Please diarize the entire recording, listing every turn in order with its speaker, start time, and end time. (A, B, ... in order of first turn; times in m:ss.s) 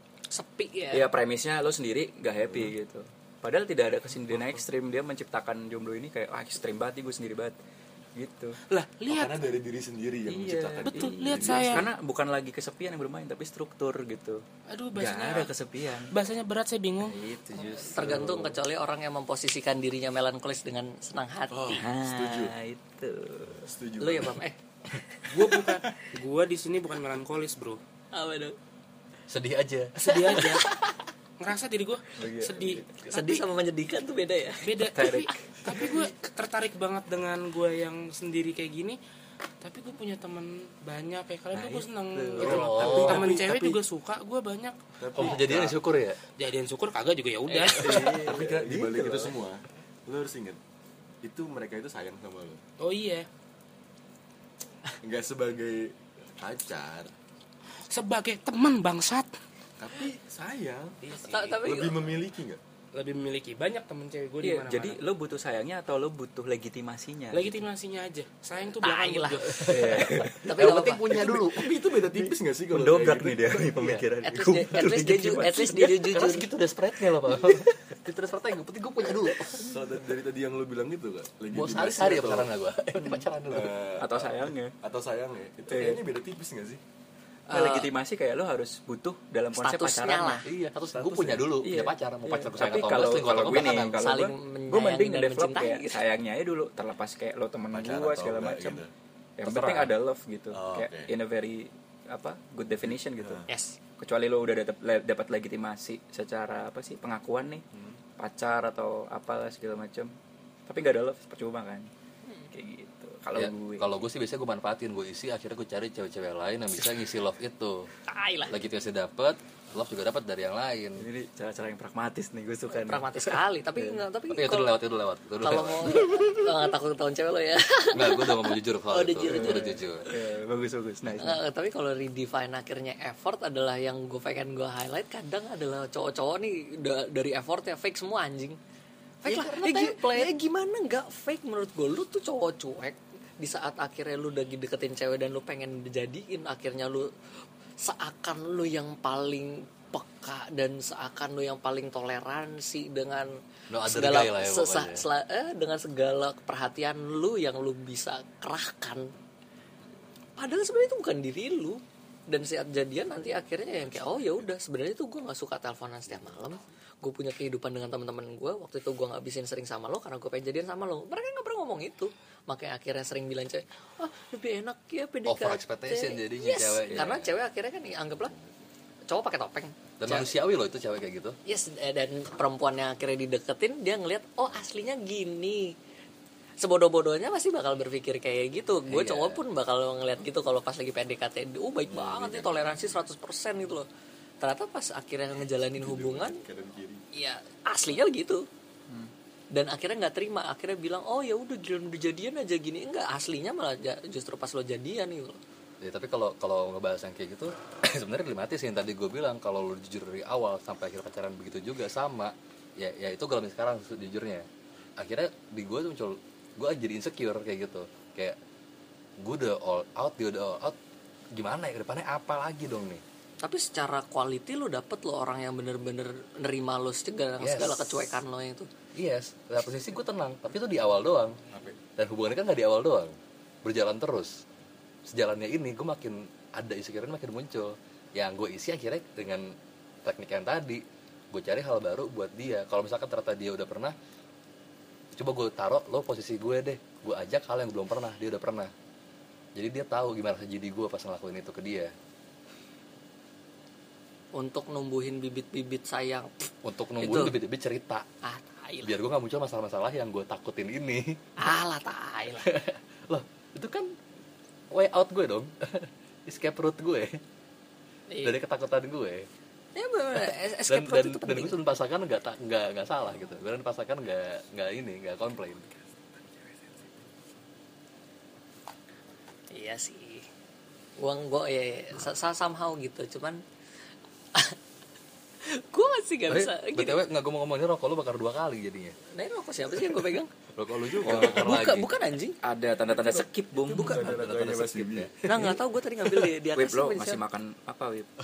0:00.3-0:01.1 A
0:00.9-0:07.6 B
0:02.4-0:02.7 C
0:04.3-0:04.6 C
0:08.1-0:08.6 B
0:08.7-0:09.5 D
0:09.1-0:11.9 C
0:10.3-0:14.4 B
0:10.8-0:11.9 D
0:14.7-0:15.5 D
0:14.9-0:16.1 B
0:16.1-0:17.2 D
0:17.0-0:18.5 B
0:17.7-0:21.9 A
0:18.0-0:18.5 C
0:21.5-0:22.6 C
0:21.7-0:23.7 B
0:23.6-0:24.4 C
0:24.0-0:24.6 A
0:25.3-0:27.8 D
0:28.1-0:28.6 A
0:29.3-0:30.6 E
0:30.0-0:30.7 D
0:30.1-0:30.9 A
0:31.4-0:33.4 D
0:32.2-0:32.8 B
0:33.1-0:35.1 A
0:34.6-0:39.0 D
0:34.9-0:35.4 B
0:39.6-0:45.2 D
0:41.5-0:43.4 B
0:42.4-0:43.8 C
0:42.4-0:43.4 E
0:45.0-0:45.8 C
0:45.1-0:46.2 E
0:46.4-0:48.2 D
0:47.5-0:49.4 B
0:47.7-0:50.6 C
0:51.2-0:52.6 C
0:52.8-0:53.3 D
0:55.0-0:57.1 C
0:57.9-0:59.3 D
0:59.8-1:01.0 C
1:01.2-1:02.0 A
1:01.5-1:02.6 C
1:02.9-1:05.0 D
1:04.4-1:07.6 B
1:07.3-1:09.7 D
1:08.8-1:11.1 A
1:09.6-1:10.5 B
1:09.6-1:11.7 E
1:11.1-1:13.9 C
1:12.0-1:16.1 B
1:14.2-1:16.5 A
1:16.0-1:19.7 E
1:19.6-1:22.5 C
1:21.5-1:23.7 E
1:23.0-1:23.2 B
1:23.5-1:26.8 C
1:24.0-1:24.7 B
1:25.7-1:26.0 B
1:27.5-1:27.9 A
1:27.5-1:38.8 B
1:29.6-1:30.4 A
1:30.4-1:34.0 E
1:33.9-1:36.0 A
1:37.7-1:38.9 C
1:39.4-1:43.4 B
1:39.4-1:39.9 E
1:40.5-1:41.1 C
1:42.8-1:43.5 C
1:43.5-1:43.8 A
1:44.0-1:47.6 B
1:47.7-1:48.0 C
1:48.2-1:50.1 B
1:50.7-1:51.9 B
1:52.5-1:53.9 B
1:53.4-1:57.9 E
1:58.1-1:58.6 A
1:58.5-2:01.1 E
2:01.0-2:03.9 B
2:02.7-2:04.7 A
2:04.3-2:06.2 E
2:05.4-2:09.7 A
2:07.9-2:10.1 E
2:09.2-2:11.4 B
2:11.2-2:18.6 A
2:19.2-2:27.1 A
2:19.3-2:20.3 E
2:27.8-2:39.1 A
2:33.7-2:35.0 E
2:40.4-2:58.3 A
2:43.7-2:44.5 C
2:55.3-2:57.4 E
2:58.2-2:58.5 C
2:59.1-3:00.3 A
3:00.0-3:01.4 E
3:01.4-3:05.8 A
3:06.6-3:13.9 A
3:08.9-3:09.4 E
3:11.9-3:13.0 C
3:14.4-3:16.4 A
3:15.6-3:17.0 C
3:17.1-3:18.5 A
3:19.5-3:25.4 A
3:25.8-3:34.4 E
3:35.0-3:38.4 E
3:39.2-3:40.8 E
3:41.3-3:43.0 E
3:43.4-3:48.7 A
3:47.4-3:48.1 E
3:49.0-3:51.4 E
3:51.5-3:51.8 C
3:52.0-3:54.4 E
3:55.1-3:59.5 E
4:00.0-4:03.9 E
4:05.1-4:08.7 E
4:09.6-4:11.9 E
4:14.4-4:17.4 A
4:16.6-4:18.0 E
4:18.2-4:18.9 A
4:18.8-4:21.4 E
4:21.4-4:22.5 A
4:22.4-4:23.9 E
4:24.7-4:27.2 E
4:28.1-4:28.4 A
4:28.2-4:29.3 E
4:29.7-4:31.6 A
4:30.2-4:35.7 E
4:39.5-4:40.3 A
4:41.0-4:43.4 A
4:45.4-4:47.0 A
4:46.3-4:49.0 E
4:49.1-4:50.3 A
4:50.6-4:51.9 E
4:51.0-4:52.4 A
4:52.4-4:54.2 B
4:52.9-4:55.1 C
4:53.8-4:55.6 E
4:55.2-4:57.2 A
4:56.5-4:58.1 B